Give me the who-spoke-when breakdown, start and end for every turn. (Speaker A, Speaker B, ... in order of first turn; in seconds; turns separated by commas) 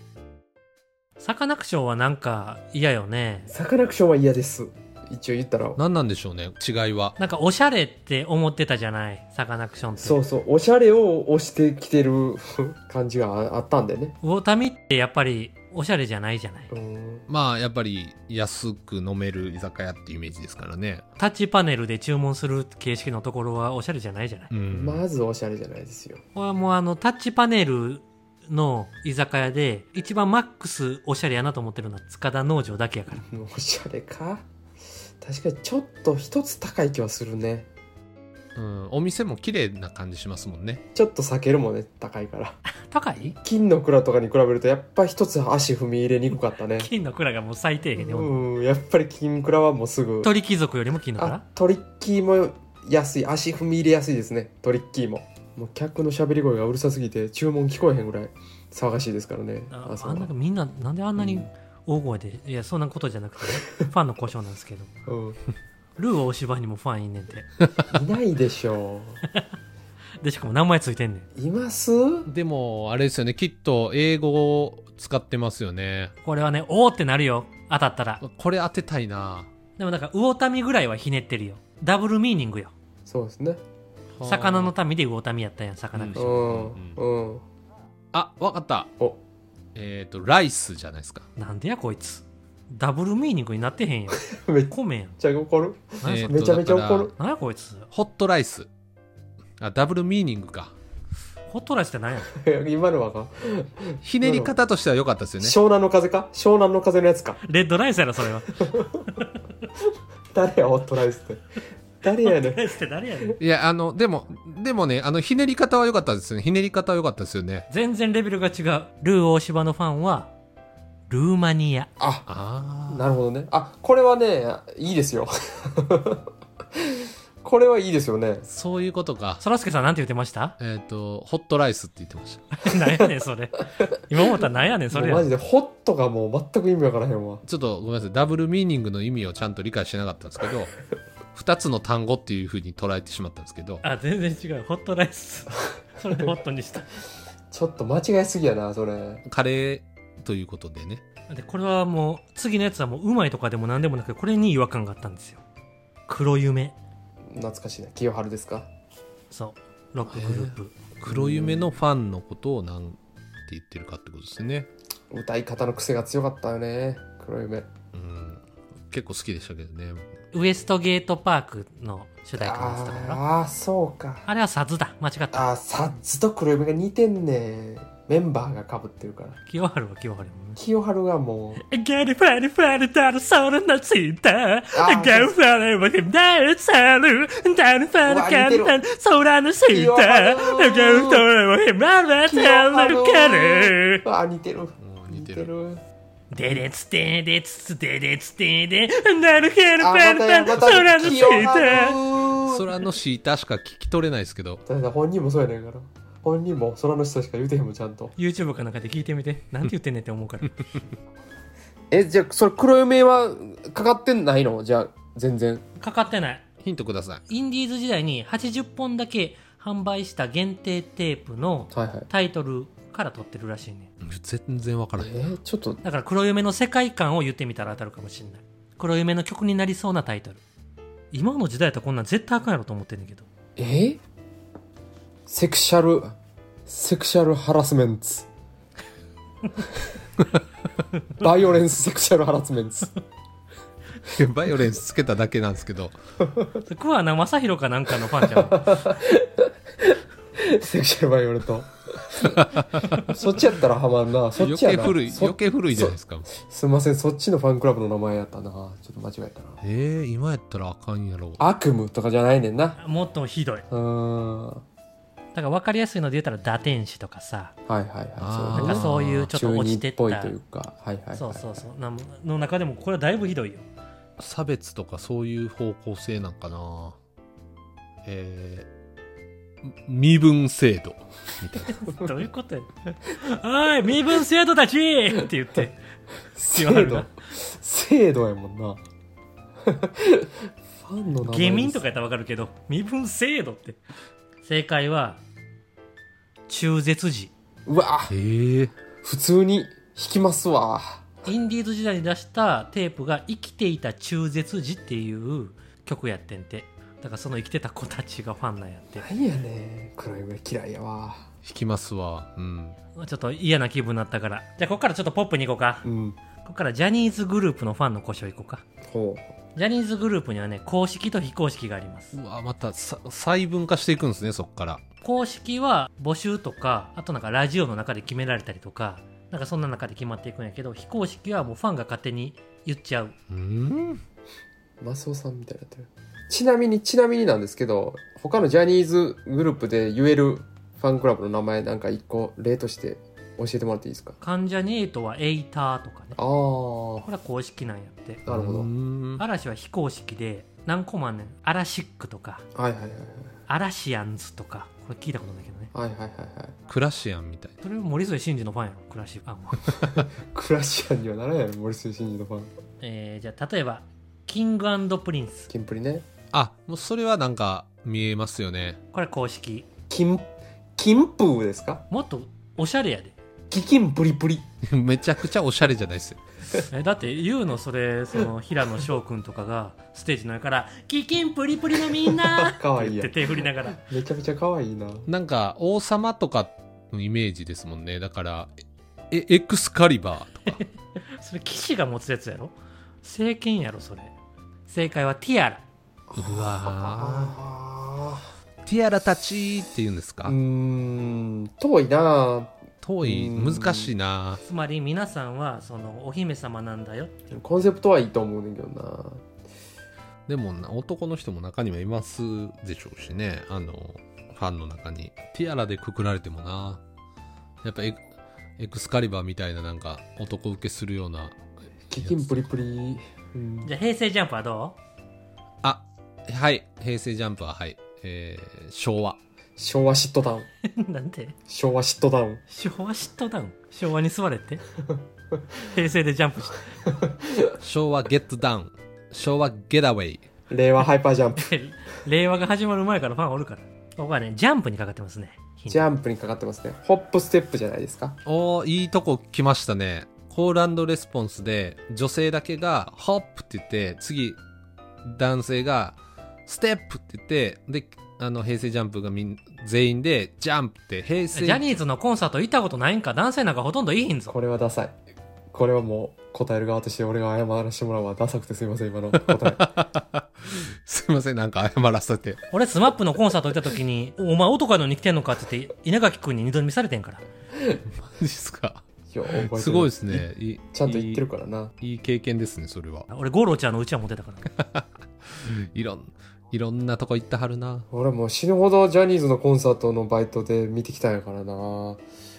Speaker A: 1.2-3.5, Speaker B: 3.5-5.8, Speaker C: 5.8-7.2, Speaker A: 7.2-10.2, Speaker B: 10.0-14.2, Speaker A: 14.2-16.7, Speaker B: 16.7-17.2, Speaker C: 17.3-21.0, Speaker A: 21.2-24.5, Speaker C: 24.5-25.0, Speaker B: 24.7-26.2, Speaker A: 26.3-33.2, Speaker B: 33.1-34.5, Speaker B: 35.2-37.7, Speaker C: 38.5-40.8, Speaker B: 40.9-42.6, Speaker A: 42.8-43.4, Speaker B: 43.3-46.9, Speaker A: 46.8-48.3, Speaker B: 48.0-50.3, Speaker A: 50.2-51.4, Speaker B: 51.2-60.3, Speaker A: 59.7-64.9, Speaker B: 61.2-61.5, Speaker B: 65.1-65.4, Speaker A: 66.0-67.5, Speaker B: 67.9-69.2, Speaker A: 70.2-71.3, Speaker B: 71.3-72.3, Speaker C: 72.3-76.1, Speaker A: 76.2-78.2, Speaker C: 78.2-79.5, Speaker A: 79.8-82.7, Speaker B: 83.0-83.6, Speaker C: 84.2-84.7, Speaker A: 84.2-86.4, Speaker C: 85.9-87.0, Speaker B: 86.1-87.4, Speaker C: 88.1-88.9, Speaker C: 89.7-91.2, Speaker A: 91.4-95.2, Speaker B: 94.3-97.1, Speaker A: 96.0-96.3, Speaker C: 96.0-97.1, Speaker A: 97.2-97.9, Speaker C: 97.9-98.7, Speaker C: 99.6-100.7, Speaker A: 101.5-102.3, Speaker B: 102.3-104.5, Speaker C: 104.0-105.6, Speaker B: 105.4-107.4, Speaker A: 107.4-109.4, Speaker B: 108.6-109.0, Speaker B: 110.3-111.4, Speaker B: 112.0-113.3, Speaker A: 112.0-113.4, Speaker C: 113.4-117.7, Speaker A: 117.7-120.3, Speaker A: 121.1-121.9, Speaker B: 122.0-122.3, Speaker C: 122.3-123.1, Speaker B: 122.9-128.4, Speaker C: 128.5-129.4, Speaker A: 129.4-130.5, Speaker C: 130.6-132.5, Speaker A: 132.6-135.3, Speaker B: 134.9-137.4, Speaker C: 137.4-140.7, Speaker C: 141.3-143.8, Speaker A: 143.8-146.9, Speaker B: 147.5-149.2, Speaker C: 149.3-151.0, Speaker A: 151.3-155.4, Speaker A: 156.1-156.8, Speaker B: 157.3-158.7, Speaker A: 159.3-160.7, Speaker C: 160.1-164.7, Speaker B: 161.1-161.7, Speaker B: 165.1-167.7, Speaker C: 167.9-170.1, Speaker A: 170.3-173.2, Speaker B: 172.4-174.3, Speaker A: 174.2-175.5, Speaker B: 175.3-179.4, Speaker A: 179.4-180.6, Speaker B: 180.6-181.6, Speaker A: 181.6-194.0, Speaker B: 184.7-185.3, Speaker B: 188.1-188.8, Speaker B: 189.7-191.2, Speaker B: 192.2-195.8, Speaker C: 194.8-195.5, Speaker A: 196.3-202.0, Speaker B: 199.8-202.7, Speaker C: 200.8-201.2, Speaker C: 202.4-204.6, Speaker B: 204.7-208.1, Speaker A: 208.2-210.5, Speaker B: 211.9-215.6, Speaker A: 215.8-216.4, Speaker C: 216.6-217.2, Speaker A: 217.3-223.9, Speaker B: 221.7-222.1, Speaker C: 224.0-225.3, Speaker B: 225.0-225.8, Speaker A: 225.8-230.4, Speaker A: 231.1-233.2, Speaker B: 233.6-234.0, Speaker B: 235.3-236.1, Speaker B: 236.7-238.3, Speaker B: 241.2-242.9, Speaker C: 244.1-245.9, Speaker B: 246.2-246.6, Speaker A: 246.7-248.8, Speaker B: 248.1-259.6, Speaker C: 252.2-253.1, Speaker C: 254.4-256.3, Speaker C: 259.6-261.4, Speaker B: 261.4-262.8, Speaker A: 262.8-263.6, Speaker B: 263.7-264.6, Speaker A: 265.3-267.5, Speaker B: 267.7-271.6, Speaker C: 268.2-269.3, Speaker A: 268.6-270.3, Speaker A: 271.1-273.6, Speaker C: 274.2-277.0, Speaker C: 278.0-278.7, Speaker C: 279.6-281.8, Speaker A: 281.7-285.8, Speaker B: 286.4-288.8, Speaker A: 286.5-287.1, Speaker B: 289.6-291.8, Speaker A: 291.2-293.8, Speaker A: 294.4-295.2, Speaker A: 296.5-297.3, Speaker B: 297.6-298.1, Speaker C: 298.1-298.7, Speaker B: 299.0-301.1, Speaker A: 301.2-309.1, Speaker B: 309.0-311.3, Speaker C: 311.4-312.8, Speaker A: 312.9-315.9, Speaker B: 315.8-316.2, Speaker A: 316.4-318.6, Speaker B: 318.8-319.3, Speaker A: 319.5-322.1, Speaker C: 322.1-324.8, Speaker A: 325.0-333.1, Speaker C: 333.3-334.0, Speaker B: 334.8-344.2, Speaker A: 344.2-346.2, Speaker B: 346.1-347.1, Speaker A: 347.0-348.2, Speaker B: 348.2-348.7, Speaker C: 348.3-349.2, Speaker A: 349.2-352.4, Speaker B: 352.5-353.3, Speaker A: 353.5-355.7, Speaker B: 355.7-356.5, Speaker C: 356.7-357.5, Speaker A: 357.6-359.7, Speaker B: 359.9-362.5, Speaker A: 362.8-365.5, Speaker B: 365.5-366.1, Speaker C: 366.3-368.8, Speaker A: 368.9-369.7, Speaker B: 369.9-371.8, Speaker A: 371.9-373.1, Speaker B: 373.5-374.4, Speaker C: 374.6-376.2, Speaker A: 376.7-383.8, Speaker B: 382.0-385.1, Speaker C: 385.1-388.5, Speaker C: 389.1-390.6, Speaker A: 391.2-394.1, Speaker A: 394.7-395.6, Speaker B: 396.1-398.3, Speaker C: 396.1-397.3, Speaker C: 398.6-400.4, Speaker B: 400.2-403.9, Speaker C: 402.8-404.4, Speaker A: 404.4-407.1, Speaker B: 407.3-409.2, Speaker C: 410.3-416.8, Speaker C: 417.6-418.0, Speaker C: 418.6-421.4, Speaker B: 421.9-423.7, Speaker C: 422.0-422.4, Speaker A: 423.6-424.8, Speaker C: 425.6-429.2, Speaker B: 429.6-430.5, Speaker A: 430.6-431.3, Speaker B: 431.5-432.4, Speaker A: 432.5-434.6, Speaker A: 435.6-436.7, Speaker B: 436.9-437.5, Speaker C: 437.6-440.3, Speaker B: 440.5-441.5, Speaker A: 441.4-445.9, Speaker B: 445.7-448.2, Speaker C: 448.2-454.4, Speaker C: 455.0-455.9, Speaker C: 456.5-461.6, Speaker A: 461.3-464.3, Speaker B: 464.3-465.0, Speaker B: 465.5-469.7, Speaker C: 469.2-472.4, Speaker A: 472.5-477.2, Speaker B: 477.6-477.8, Speaker C: 478.0-481.2, Speaker B: 479.1-481.7, Speaker C: 481.8-483.1, Speaker A: 483.1-484.5, Speaker C: 484.5-484.8, Speaker C: 485.3-487.9, Speaker B: 487.9-492.0